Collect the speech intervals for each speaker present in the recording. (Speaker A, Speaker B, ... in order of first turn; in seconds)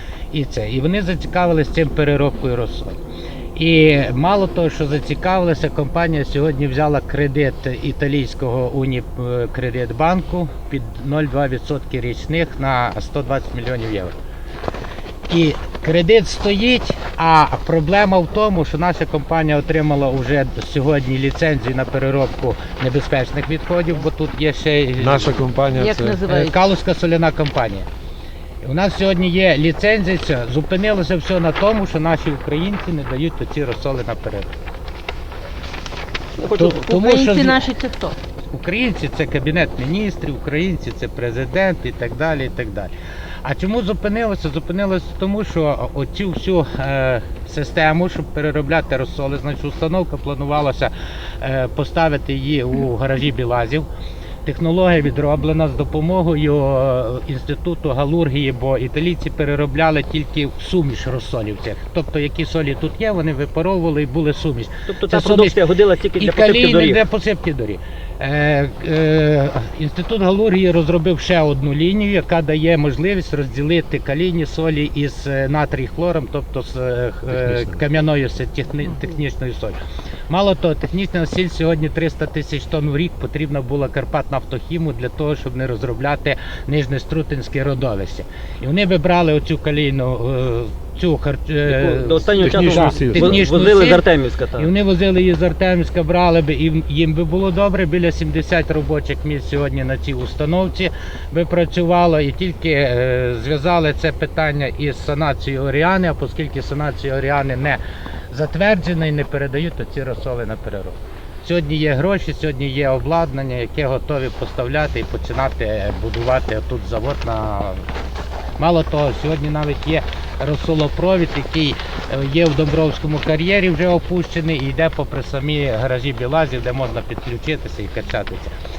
Speaker A: 0.3-3.0, 3.5-14.1, 15.3-25.5, 26.3-27.9, 28.6-34.5, 36.6-37.7, 38.5-42.9, 43.4-53.9, 54.5-65.6, 66.2-79.8, 80.3-107.8, 108.3-117.8, 118.6-128.5
Speaker B: 25.0-26.2, 77.3-77.8, 92.4-93.5
Speaker C: 25.8-26.6, 36.8-38.2
Speaker D: 36.4-36.8, 64.9-67.0, 91.7-94.7